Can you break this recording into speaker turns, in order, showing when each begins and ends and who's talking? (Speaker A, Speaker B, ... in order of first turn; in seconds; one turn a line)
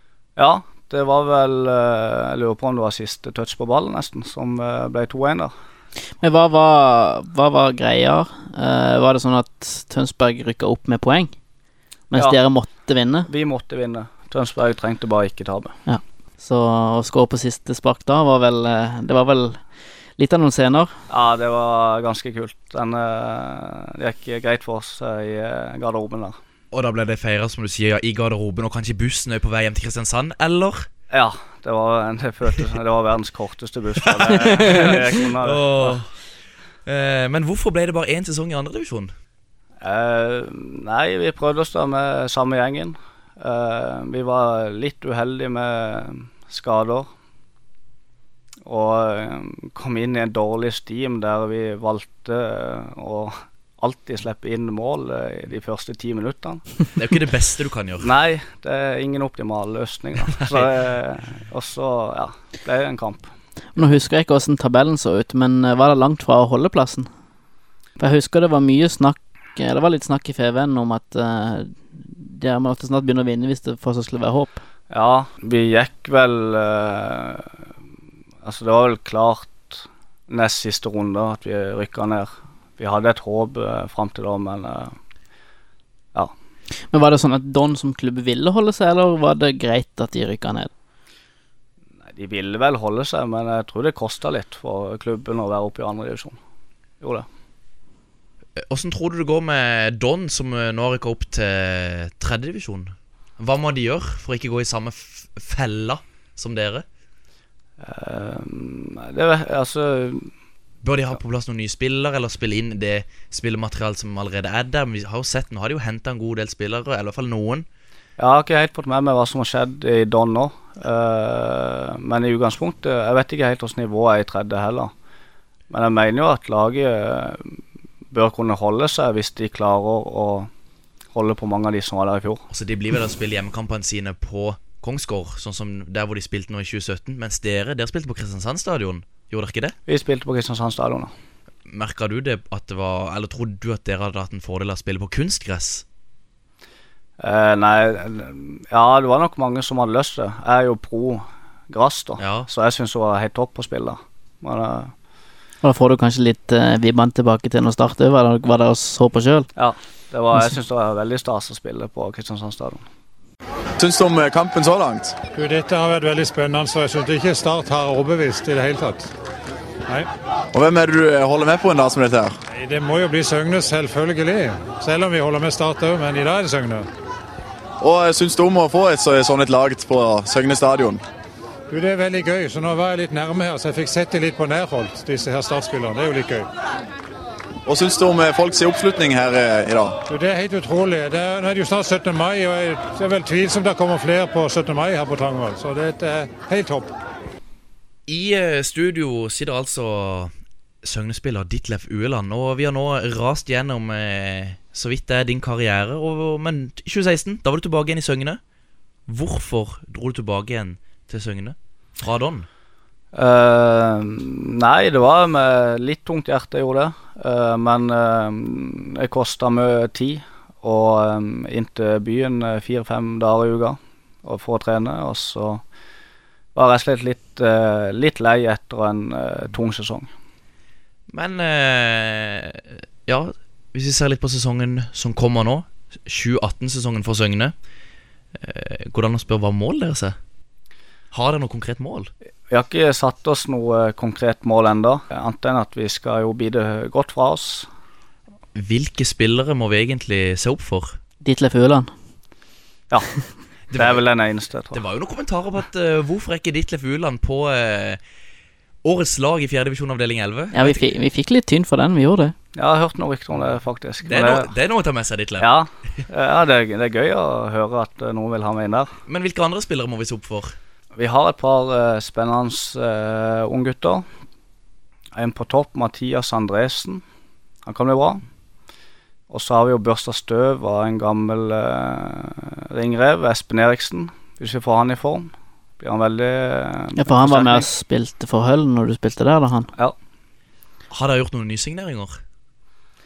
Speaker A: 0.3-5.5
Speaker B: 6.2-11.3
Speaker B: 12.1-13.3
Speaker A: 13.3-15.8
Speaker B: 15.9-19.6
Speaker B: 20.2-20.9
Speaker A: 21.1-26.4
Speaker C: 26.7-30.9
Speaker A: 31.1-36.0
Speaker C: 34.1-36.1
Speaker C: 36.9-39.1
Speaker A: 39.8-47.1
Speaker A: 48.6-56.8
Speaker C: 57.0-58.1
Speaker A: 58.0-63.3
Speaker B: 63.8-67.1
Speaker B: 68.0-74.6
Speaker A: 74.9-77.5
Speaker A: 78.4-84.9
Speaker B: 86.9-90.7
Speaker A: 92.1-96.3
Speaker A: 97.0-97.2
Speaker C: 98.6-106.8
Speaker A: 107.8-110.3
Speaker C: 110.8-117.7
Speaker A: 118.2-124.9
Speaker A: 125.7-127.5
Speaker A: 128.1-130.5
Speaker A: 131.1-132.4
Speaker C: 132.5-139.7
Speaker A: 139.9-141.1
Speaker C: 141.7-145.8
Speaker A: 147.2-154.9
Speaker C: 152.2-152.5
Speaker B: 155.6-159.5
Speaker A: 159.6-162.8
Speaker D: 163.8-165.2
Speaker E: 165.3-169.1
Speaker D: 170.5-172.4
Speaker E: 172.5-176.9
Speaker D: 177.8-181.0
Speaker E: 181.7-186.5
Speaker D: 187.6-189.9
Speaker E: 190.1-196.9
Speaker C: 198.1-200.3
Speaker C: 200.8-208.4
Speaker C: 209.1-212.5
Speaker A: 213.1-225.6
Speaker A: 226.5-230.1
Speaker C: 231.1-237.5
Speaker C: 238.4-240.2
Speaker C: 241.1-242.1
Speaker A: 242.5-247.7
Speaker C: 248.5-251.0
Speaker B: 251.2-251.9
Speaker C: 253.7-254.0
Speaker A: 253.8-254.8
Speaker C: 254.7-258.0
Speaker C: 258.8-260.8
Speaker B: 260.5-262.3
Speaker A: 262.5-264.5
Speaker C: 264.1-265.5
Speaker A: 265.4-268.9
Speaker C: 269.1-270.5
Speaker A: 270.9-274.0
Speaker A: 275.1-277.0
Speaker A: 277.6-278.2
Speaker A: 279.3-287.6
Speaker B: 287.0-289.7
Speaker C: 290.9-292.2